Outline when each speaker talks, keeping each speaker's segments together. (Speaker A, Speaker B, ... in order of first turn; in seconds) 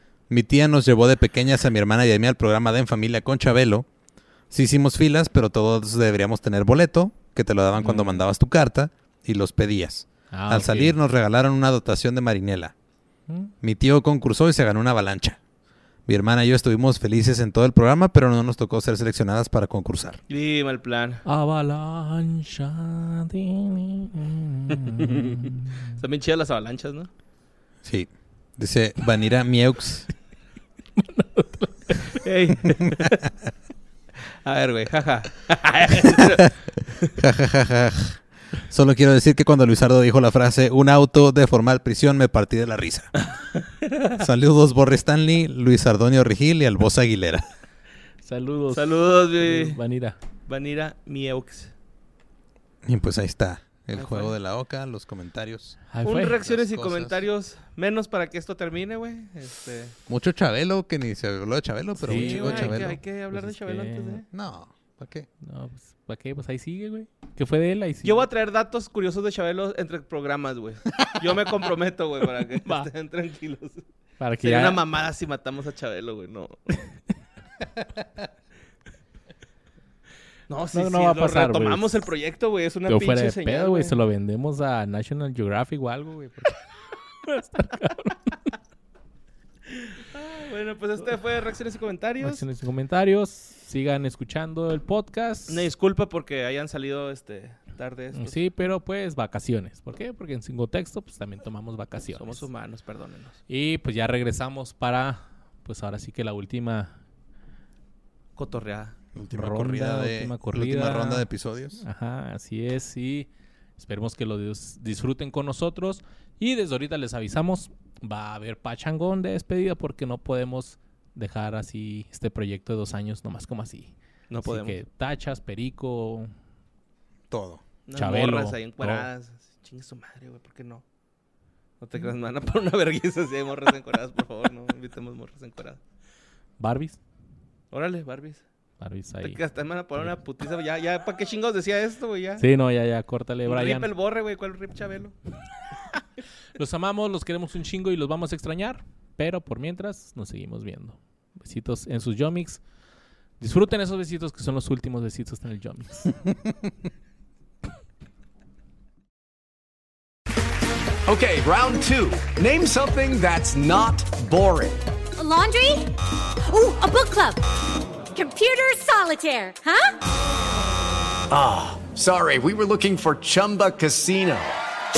Speaker A: 0.3-3.9, 4.5-12.7, 13.6-15.4, 16.1-20.2, 27.8-30.1, 37.2-43.1, 44.2-47.4, 52.8-55.8, 56.4-57.2, 60.1-63.0, 64.3-65.3, 109.2-111.8, 127.3-127.6
Speaker B: 7.8-8.2, 10.3-10.9, 21.2-25.7, 31.0-32.2, 48.2-50.2, 55.9-56.4, 62.0-64.2, 65.4-68.3, 74.2-74.8, 80.7-82.1, 82.9-86.6, 87.2-88.5, 92.2-95.7, 98.1-102.4, 103.5-107.0, 109.3-111.3, 111.8-126.3, 128.0-129.1, 136.6-137.0, 138.8-139.4, 142.4-143.9, 146.6-152.6, 153.4-156.1
Speaker C: 20.3-21.2, 24.8-27.1, 32.1-33.2, 34.5-37.1, 43.2-44.2, 48.7-49.8, 50.5-51.7, 53.9-54.3, 56.0-60.0, 62.0-64.3, 68.0-73.8, 74.4-76.8, 80.5-84.0, 90.0-92.4, 95.5-98.4, 102.1-103.4, 108.4-109.0, 124.3-124.8, 127.9-130.8, 131.8-135.8, 137.7-138.4, 139.2-142.4, 143.5-145.2
Speaker D: 161.1-164.8, 171.3-174.6
Speaker E: 165.2-167.4, 168.1-169.9